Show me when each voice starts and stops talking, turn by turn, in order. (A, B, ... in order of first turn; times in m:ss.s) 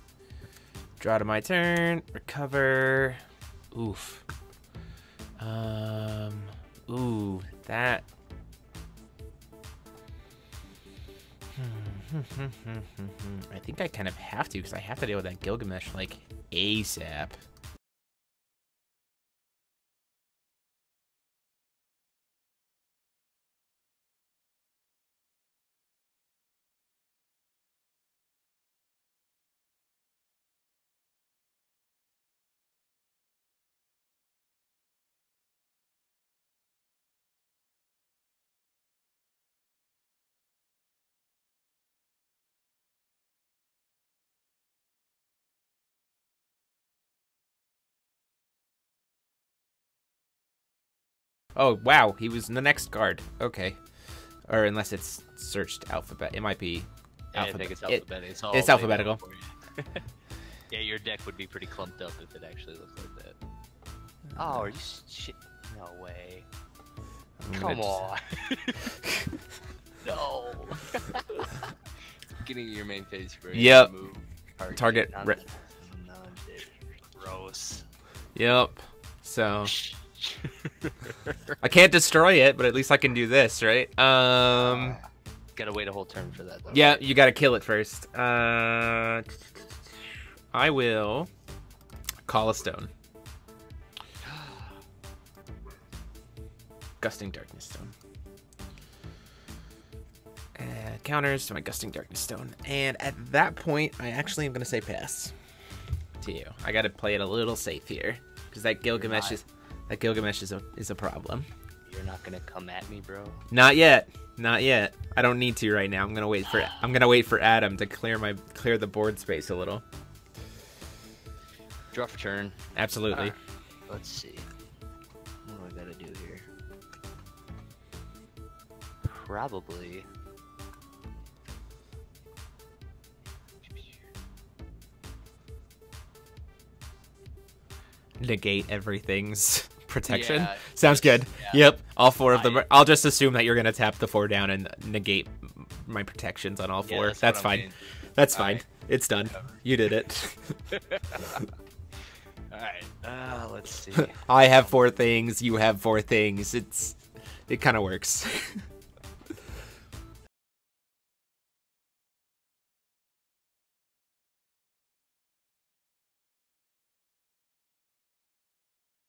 0:01.0-0:04.2 A
0:05.4-0:08.1 A
0:11.6-0:17.4 A
0:51.6-0:53.8 A
0:54.5-0:59.2 A
0:57.3-1:00.0 B
1:00.7-1:03.4 B
1:04.3-1:04.7 A
1:04.4-1:06.5 B
1:07.4-1:08.0 A
1:07.5-1:08.9 B
1:09.0-1:09.3 A
1:10.0-1:11.6 B
1:12.4-1:17.9 B
1:13.5-1:13.9 A
1:14.7-1:15.4 A
1:18.4-1:19.8 A
1:19.6-1:21.6 B
1:21.6-1:25.0 A
1:24.5-1:27.0 B
1:26.7-1:29.4 A
1:30.5-1:31.3 A
1:32.3-1:32.9 A
1:34.3-1:34.6 B
1:37.0-1:37.9 A
1:40.6-1:45.4 A
1:46.2-1:51.5 A
1:49.0-1:49.4 B
1:51.8-1:53.4 B
1:53.5-1:59.8 A
2:01.9-2:03.4 B
2:02.8-2:03.4 A
2:03.9-2:04.5 B
2:05.5-2:06.5 B
2:09.0-2:10.1 B
2:13.6-2:14.0 B
2:18.2-2:31.5 A
2:20.1-2:21.6 B
2:22.3-2:22.7 B
2:26.9-2:27.8 B
2:28.3-2:28.6 B
2:29.3-2:29.6 B
2:30.7-2:31.5 B
2:32.5-2:34.5 B
2:34.0-2:38.7 A